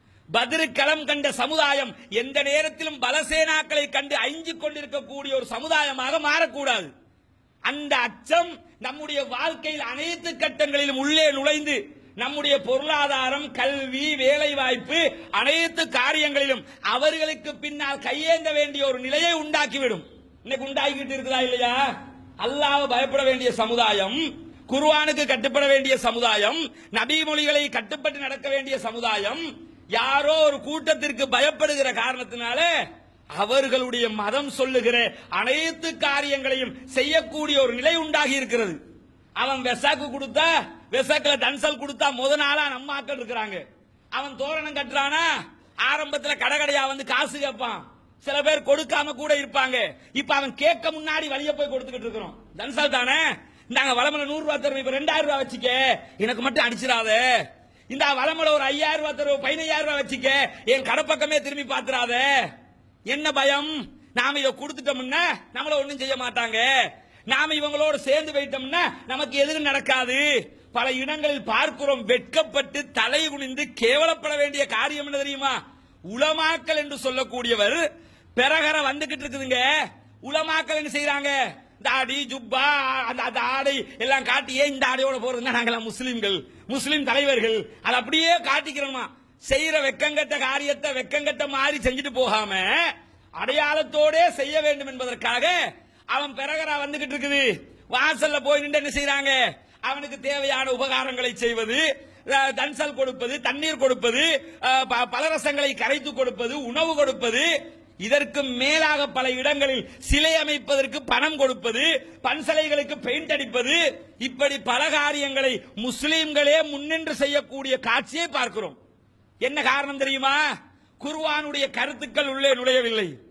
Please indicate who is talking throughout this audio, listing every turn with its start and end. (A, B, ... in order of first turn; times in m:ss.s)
0:00.3-0:06.9 A
0:07.6-0:21.8 A
0:22.4-0:32.7 A
0:33.4-0:38.8 A
0:39.4-0:43.6 A
0:44.1-0:45.3 A
0:45.8-0:57.2 A
0:57.9-1:02.3 A
1:03.1-1:06.7 A
1:07.3-1:15.6 A
1:16.1-1:17.8 A
1:18.4-1:19.6 A
1:20.2-1:32.8 A
1:33.4-1:35.6 A
1:36.1-1:47.5 A
1:48.0-1:58.8 A
1:59.4-2:00.4 A
2:01.0-2:03.1 A